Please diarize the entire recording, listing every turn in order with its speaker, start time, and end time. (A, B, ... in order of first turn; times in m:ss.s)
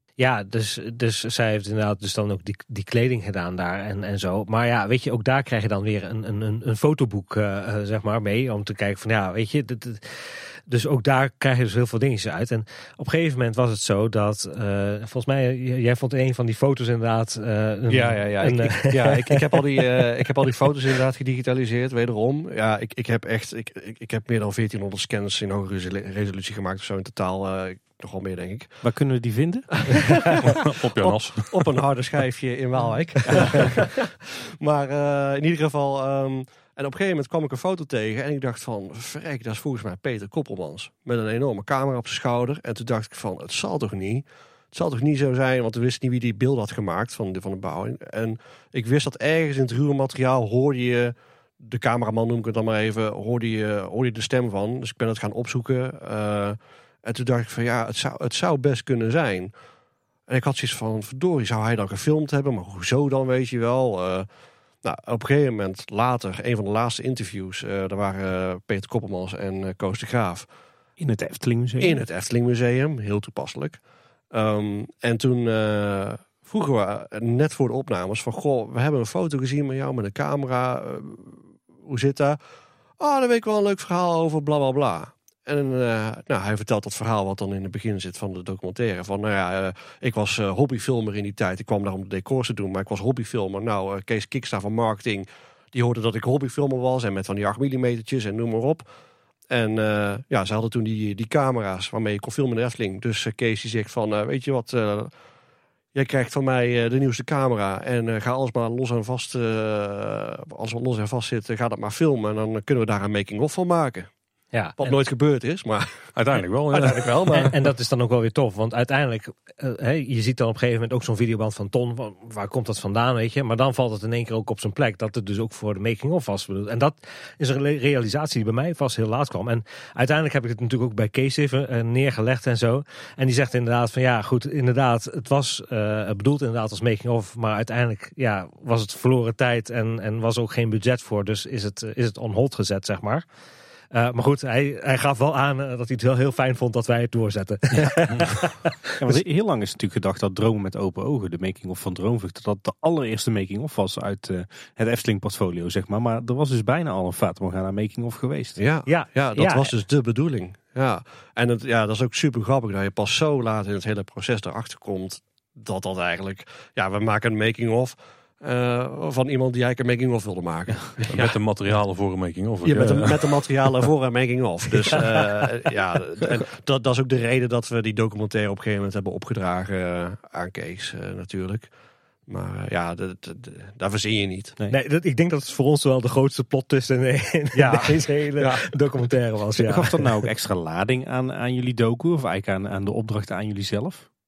0:00.2-0:20.0 A
0:17.9-0:28.7 B
0:28.8-0:30.0 C
0:29.9-0:30.4 B
0:30.4-0:31.6 D
0:31.0-0:59.5 B
0:33.3-0:33.6 C
1:00.3-1:04.3 B
1:04.8-1:10.5 B
1:11.0-1:12.0 C
1:11.8-1:13.8 B
1:14.3-1:22.4 B
1:23.0-1:38.8 B
1:39.5-1:45.1 B
1:45.9-1:54.1 B
1:54.5-1:54.9 A
1:54.8-1:56.0 B
1:56.1-1:57.5 D
1:56.7-1:57.5 B
1:57.3-2:23.2 A
2:23.9-2:28.8 A
2:27.7-2:28.1 C
2:29.0-2:38.6 C
2:38.6-2:51.3 B
2:38.9-2:39.7 A
2:51.1-2:53.4 D
2:52.6-3:01.7 B
3:02.3-3:04.5 B
3:04.7-3:10.1 A
3:07.5-3:08.7 B
3:09.6-3:14.0 C